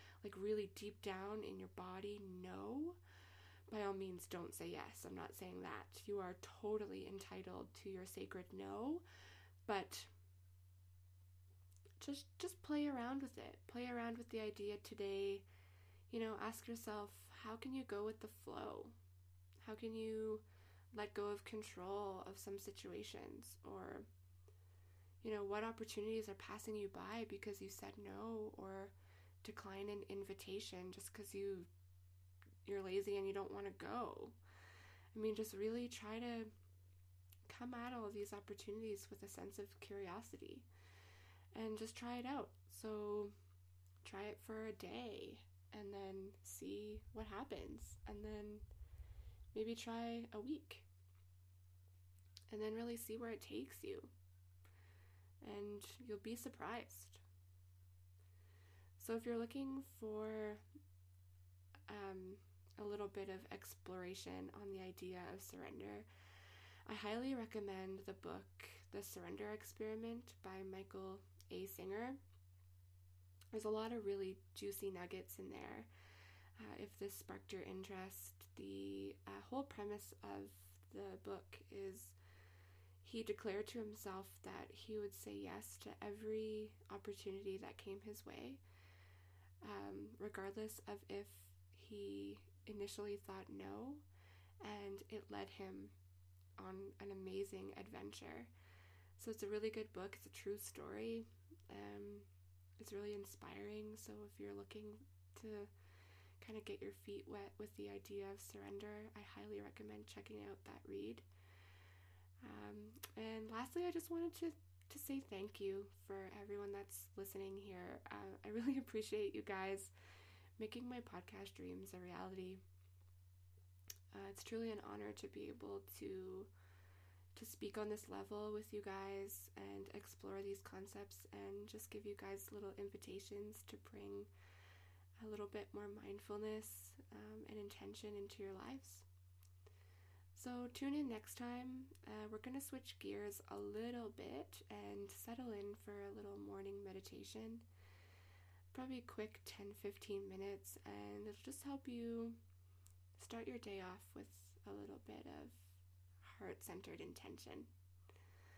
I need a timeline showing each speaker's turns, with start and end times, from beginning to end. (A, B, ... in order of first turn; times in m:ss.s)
0:00.2-0:03.0 A
0:03.7-0:09.0 A
0:09.6-0:10.1 A
0:12.0-0:15.4 A
0:16.1-0:19.0 A
0:19.6-0:24.1 A
0:25.2-0:31.7 A
0:32.6-0:34.4 A
0:35.1-0:36.5 A
0:37.5-0:40.7 A
0:41.5-0:43.3 A
0:44.0-0:48.6 A
0:49.5-0:50.9 A
0:52.5-0:54.1 A
0:55.4-0:57.2 A
0:59.0-1:00.6 A
1:01.9-1:06.1 A
1:06.9-1:12.2 A
1:13.5-1:15.9 A
1:16.6-1:22.2 A
1:23.0-1:28.6 A
1:29.6-1:34.0 A
1:34.6-1:35.9 A
1:36.6-1:38.5 A
1:39.2-1:42.3 A
1:42.8-1:45.7 A
1:46.4-1:51.2 A
1:52.4-1:59.9 A
2:00.6-2:02.6 A
2:04.1-2:06.5 A
2:07.4-2:14.3 A
2:15.2-2:19.0 A
2:20.4-2:27.6 A
2:28.7-2:32.4 A
2:33.2-2:37.7 A